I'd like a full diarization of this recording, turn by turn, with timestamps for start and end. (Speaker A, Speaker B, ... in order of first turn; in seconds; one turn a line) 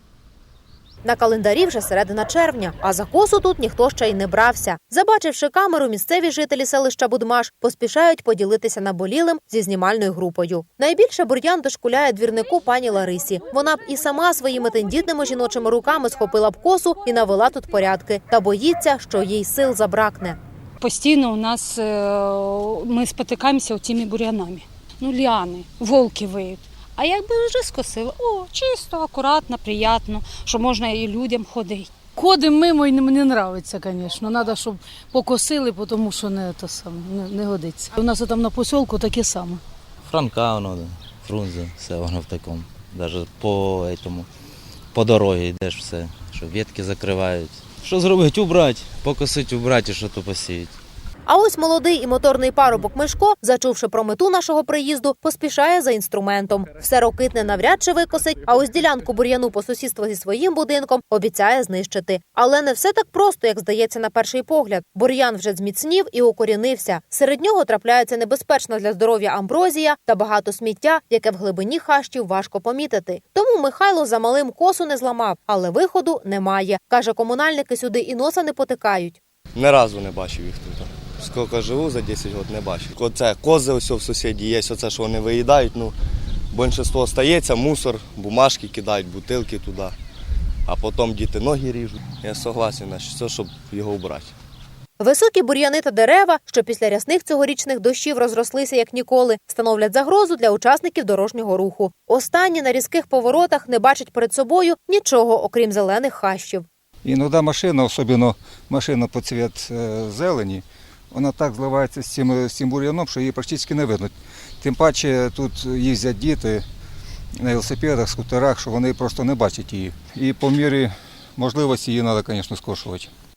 Speaker A: 1.0-20.4
Speaker B: 20.8-32.0
Speaker C: 32.1-39.6
Speaker D: 40.0-44.3
Speaker D: 44.9-50.7
Speaker A: 51.3-79.2
Speaker E: 79.5-86.0
Speaker E: 86.5-89.9
Speaker E: 90.7-94.3
Speaker A: 95.0-106.7
Speaker F: 107.0-116.6
Speaker F: 117.4-123.1